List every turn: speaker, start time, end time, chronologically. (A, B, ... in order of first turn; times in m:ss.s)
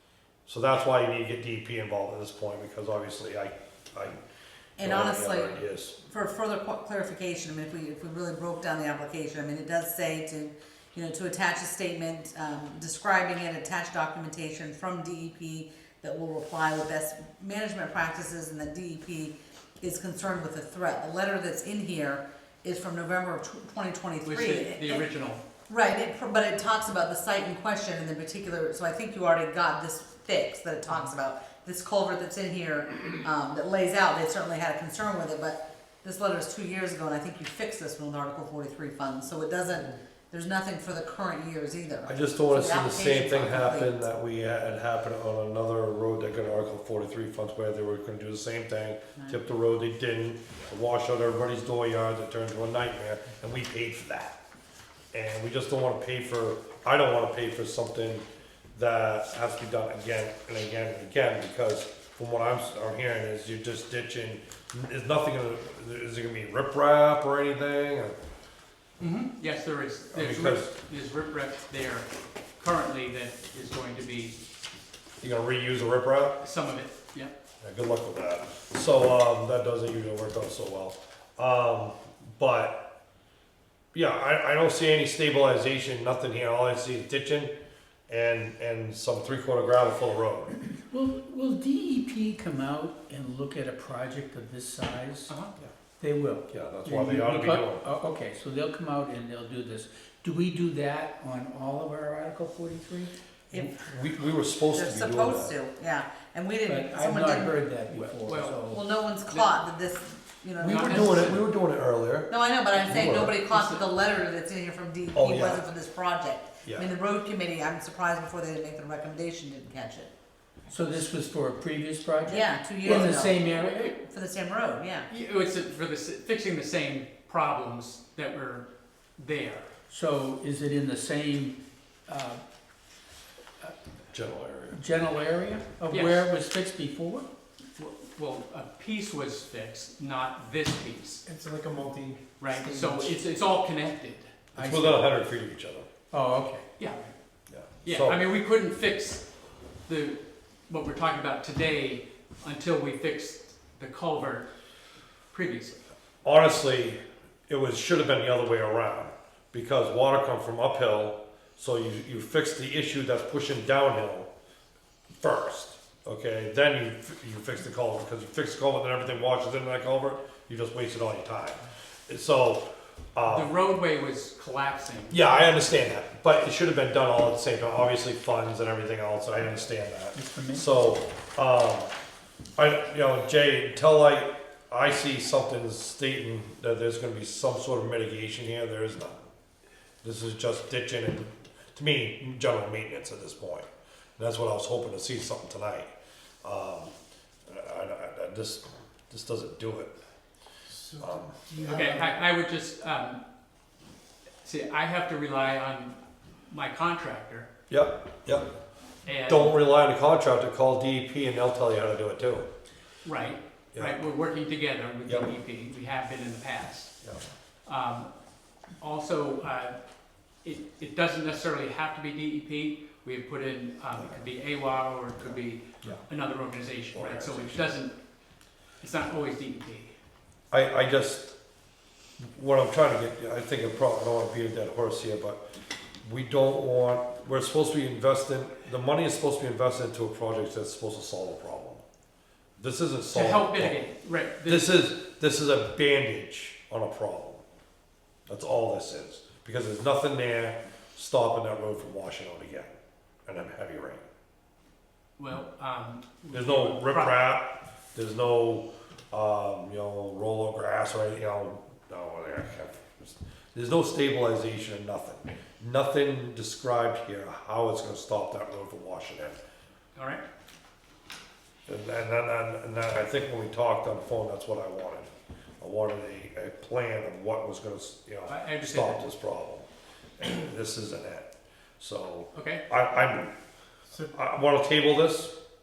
0:00.5-0:04.2 A
0:04.8-0:25.0 B
0:04.8-0:06.0 A
0:24.2-0:25.4 C
0:25.7-0:43.9 B
0:42.1-0:54.4 A
0:55.1-0:58.2 A
0:58.7-1:08.2 A
1:09.0-1:14.4 C
1:10.1-1:10.7 A
1:15.2-1:16.4 A
1:16.4-1:17.3 C
1:17.6-1:22.8 A
1:23.9-1:27.5 A
1:28.1-1:30.5 A
1:30.9-1:35.3 D
1:36.0-1:43.1 D
1:36.5-1:37.9 A
1:43.5-1:45.5 A
1:44.7-1:47.6 B
1:46.6-1:48.8 D
1:48.0-1:48.6 C
1:48.7-1:51.4 B
1:50.6-1:53.4 A
1:50.6-1:51.5 C
1:52.3-2:00.1 B
1:53.5-1:53.8 C
1:55.1-1:55.6 A
2:00.7-2:03.9 D
2:02.3-2:03.4 B
2:02.9-2:03.1 A
2:03.5-2:03.9 C
2:04.0-2:05.1 B
2:05.1-2:09.7 C
2:09.9-2:12.4 D
2:14.1-2:14.8 A
2:14.7-2:17.3 D
2:15.9-2:16.2 C
2:17.7-2:21.2 C
2:21.2-2:23.1 E
2:22.4-2:24.5 C
2:24.5-2:25.9 A
2:24.6-2:25.1 D
2:26.1-2:26.6 D
2:26.6-2:27.1 C
2:27.5-2:28.2 A
2:27.8-2:29.3 C
2:29.9-2:34.5 C
2:35.3-2:35.8 C
2:36.2-2:44.3 A
2:45.2-2:53.5 A
2:53.3-2:55.2 C
2:55.1-3:01.9 A
3:00.1-3:00.7 D
3:02.6-3:09.3 A
3:10.0-3:15.9 A
3:16.4-3:16.9 A
3:17.5-3:19.9 A
3:20.7-3:22.2 E
3:21.0-3:21.7 A
3:21.6-3:23.2 C
3:24.4-3:27.5 C
3:27.7-3:28.5 A
3:29.0-3:29.5 C
3:29.3-3:32.5 A
3:33.0-3:36.9 C
3:35.0-3:35.3 A
3:37.7-3:38.1 C
3:38.8-3:39.8 C
3:40.4-3:47.9 C
3:45.2-3:46.0 A
3:46.9-3:47.8 A
3:48.8-3:49.9 C
3:50.5-3:51.3 A
3:52.2-3:55.4 A
3:56.0-4:01.8 A
4:02.6-4:03.8 A
4:03.1-4:04.7 C
4:04.4-4:07.4 A
4:08.3-4:14.1 A
4:15.2-4:17.2 C
4:16.3-4:29.4 A
4:29.9-4:30.2 C
4:31.7-4:39.7 A
4:38.2-4:39.0 C
4:40.2-4:43.3 A
4:42.3-4:42.6 C
4:43.9-4:44.1 E
4:44.1-4:45.3 A